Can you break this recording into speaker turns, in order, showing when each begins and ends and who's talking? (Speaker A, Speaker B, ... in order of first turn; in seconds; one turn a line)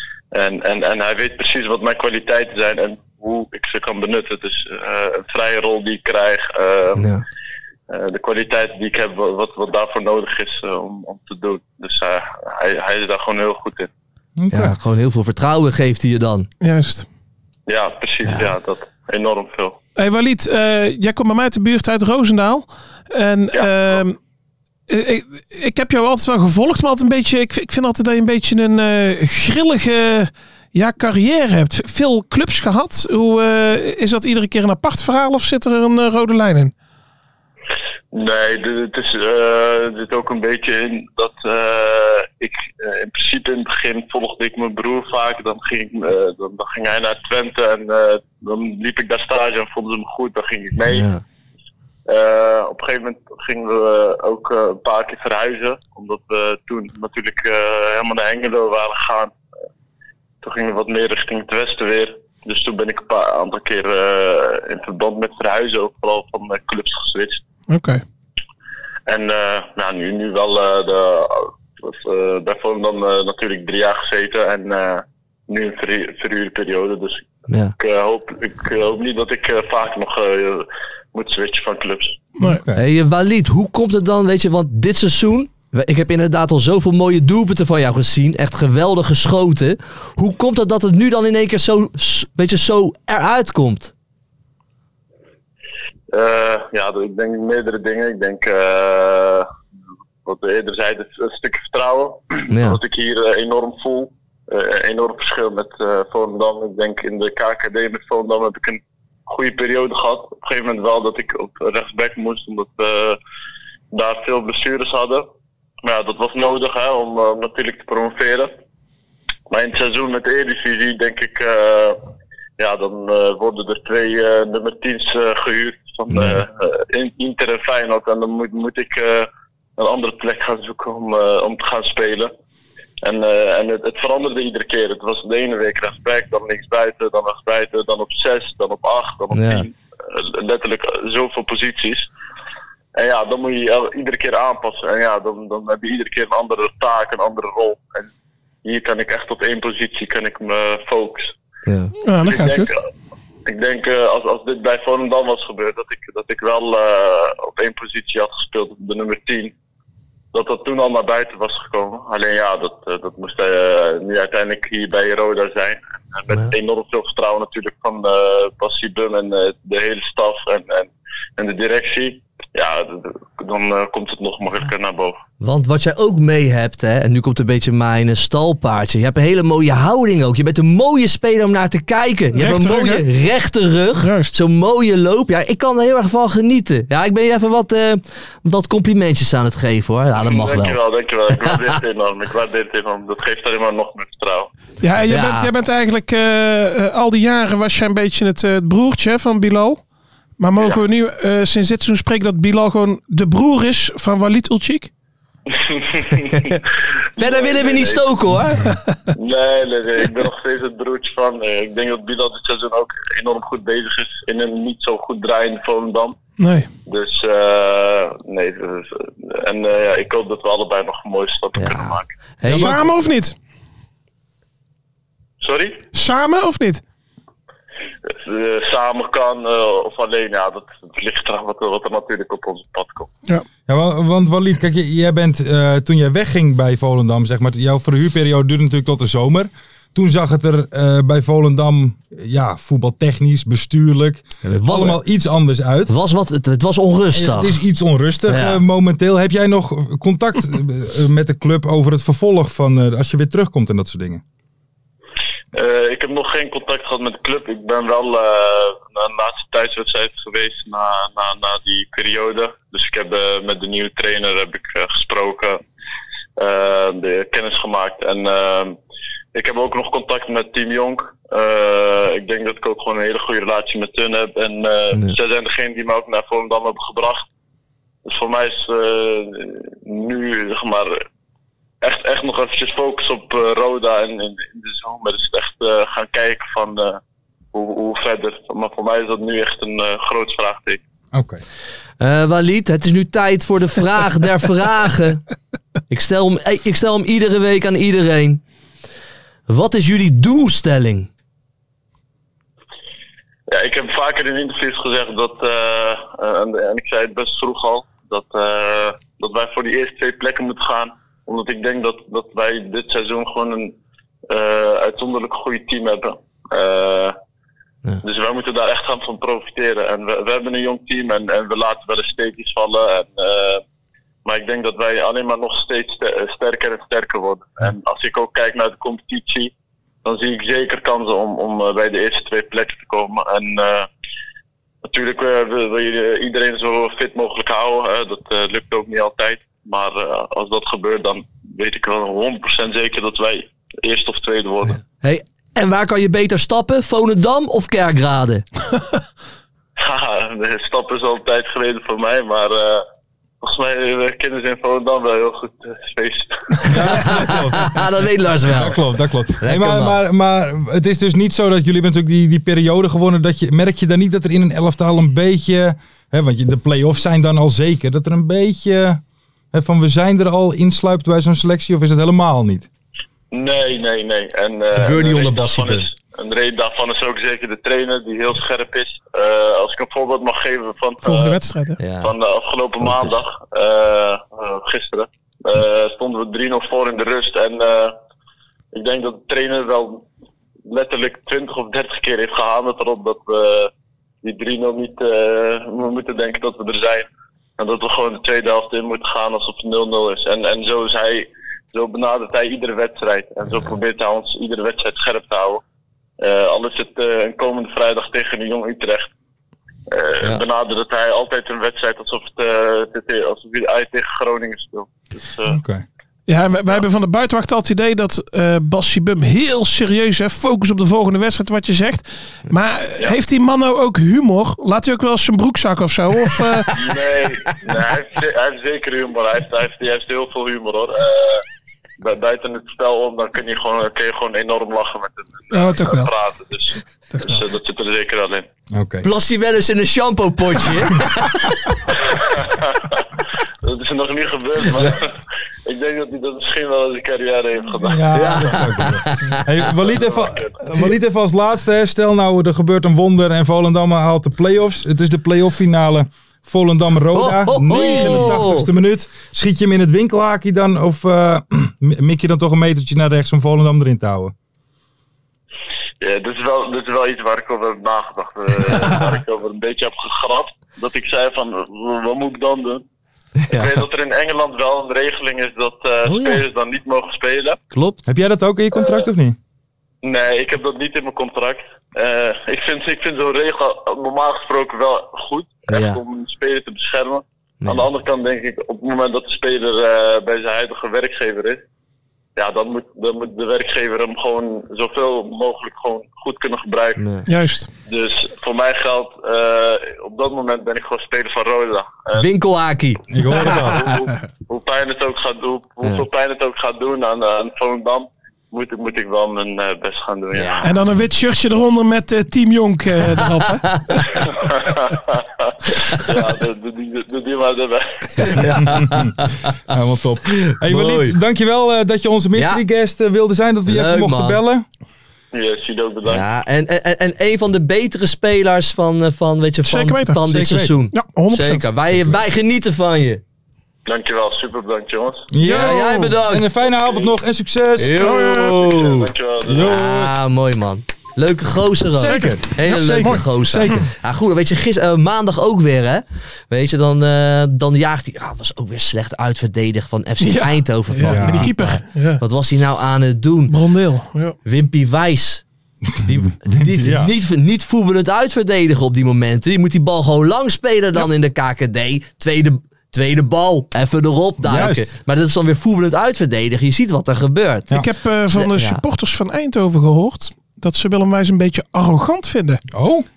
Speaker A: 0.3-7.1
Speaker B: 7.0-7.2
Speaker A: 7.9-13.9
Speaker C: 14.4-14.8
Speaker B: 14.5-16.5
Speaker D: 16.6-17.1
Speaker A: 17.7-19.8
Speaker D: 20.0-24.2
Speaker A: 23.5-24.0
Speaker D: 24.9-36.7
Speaker A: 38.1-51.1
Speaker B: 50.9-51.2
Speaker A: 52.1-59.3
Speaker A: 60.4-67.4
Speaker D: 67.7-68.0
Speaker A: 69.1-77.3
Speaker B: 77.5-77.7
Speaker A: 77.8-82.2
Speaker C: 82.4-82.8
Speaker B: 82.8-93.9
Speaker A: 96.1-99.5
Speaker A: 100.2-113.2
Speaker B: 102.5-102.8
Speaker A: 113.9-115.3
Speaker A: 115.8-118.5
Speaker A: 119.5-122.0
Speaker A: 122.6-132.3
Speaker B: 126.1-126.4
Speaker A: 133.0-142.1
Speaker B: 139.3-139.7
Speaker A: 142.9-148.1
Speaker A: 148.7-151.3
Speaker B: 151.7-151.9
Speaker D: 152.0-152.7
Speaker A: 152.2-152.8
Speaker A: 153.5-159.5
Speaker A: 160.3-175.2
Speaker B: 175.4-190.8
Speaker D: 182.4-183.1
Speaker D: 184.0-184.3
Speaker A: 190.2-194.5
Speaker D: 194.8-199.8
Speaker B: 195.1-195.5
Speaker D: 200.4-204.9
Speaker A: 205.5-208.1
Speaker B: 206.3-206.6
Speaker B: 207.2-208.7
Speaker A: 209.1-216.2
Speaker D: 216.4-216.7
Speaker A: 216.9-222.1
Speaker B: 221.6-222.9
Speaker D: 222.5-223.4
Speaker A: 225.4-225.8
Speaker D: 225.9-226.8
Speaker A: 228.1-233.1
Speaker C: 233.7-245.9
Speaker B: 244.4-245.0
Speaker B: 245.9-247.6
Speaker C: 247.1-254.2
Speaker B: 248.3-248.6
Speaker A: 255.5-265.6
Speaker A: 266.4-268.8
Speaker A: 269.3-277.3
Speaker A: 278.1-281.0
Speaker A: 281.8-287.0
Speaker A: 287.5-290.8
Speaker C: 291.1-291.4
Speaker B: 292.0-295.2
Speaker B: 295.9-298.4
Speaker B: 299.5-301.1
Speaker A: 303.5-313.8
Speaker A: 314.3-317.2
Speaker A: 318.0-323.6
Speaker A: 324.2-329.5
Speaker A: 330.0-333.9
Speaker A: 334.9-344.8
Speaker B: 345.0-348.5
Speaker A: 349.8-352.8
Speaker A: 353.4-356.9
Speaker C: 356.6-357.9
Speaker B: 356.7-358.8
Speaker C: 358.4-369.0
Speaker B: 359.4-360.0
Speaker C: 369.5-372.7
Speaker A: 373.3-381.4
Speaker B: 374.7-375.9
Speaker D: 381.0-381.8
Speaker B: 381.8-382.1
Speaker A: 382.0-388.0
Speaker B: 382.8-383.2
Speaker A: 388.7-390.1
Speaker A: 390.7-393.7
Speaker A: 394.2-405.6
Speaker A: 406.2-409.1
Speaker A: 409.9-415.6
Speaker C: 415.5-415.9
Speaker D: 416.3-426.7
Speaker A: 426.7-431.4
Speaker A: 432.0-438.5
Speaker D: 435.5-436.1
Speaker D: 437.1-437.4
Speaker C: 438.7-439.1
Speaker B: 439.0-441.8
Speaker A: 442.0-443.1
Speaker A: 443.6-448.8
Speaker C: 447.8-464.3
Speaker B: 448.1-449.7
Speaker A: 449.7-450.5
Speaker B: 457.1-458.7
Speaker A: 466.0-472.8
Speaker B: 473.4-473.8
Speaker A: 473.5-477.6
Speaker B: 476.1-476.4
Speaker B: 477.7-478.1
Speaker C: 478.1-479.4
Speaker A: 480.0-491.6
Speaker B: 485.7-486.0
Speaker A: 492.4-497.0
Speaker B: 497.0-497.3
Speaker D: 497.3-497.7
Speaker A: 497.9-502.3
Speaker B: 502.2-503.4
Speaker C: 503.1-503.9
Speaker A: 503.4-510.8
Speaker B: 510.4-510.7
Speaker D: 510.6-514.0
Speaker B: 513.6-514.1
Speaker A: 514.2-518.7
Speaker B: 518.2-519.5
Speaker C: 518.6-524.7
Speaker B: 520.4-521.2
Speaker B: 522.4-522.6
Speaker B: 523.7-524.4
Speaker A: 525.3-526.2
Speaker B: 526.1-533.2
Speaker D: 529.6-530.4
Speaker C: 530.3-530.7
Speaker D: 530.9-531.6
Speaker A: 533.9-535.3
Speaker C: 535.3-538.0
Speaker D: 535.4-536.1
Speaker B: 535.5-536.5
Speaker B: 537.8-553.6
Speaker D: 538.0-538.6
Speaker A: 538.5-540.0
Speaker C: 539.5-540.1
Speaker C: 542.0-543.9
Speaker D: 542.0-543.8
Speaker D: 550.2-552.2
Speaker C: 551.0-551.5
Speaker D: 553.5-554.4
Speaker B: 554.5-555.4
Speaker C: 555.9-557.1
Speaker B: 556.0-567.8
Speaker C: 564.4-564.9
Speaker D: 567.7-572.6
Speaker B: 568.3-568.8
Speaker C: 572.7-573.1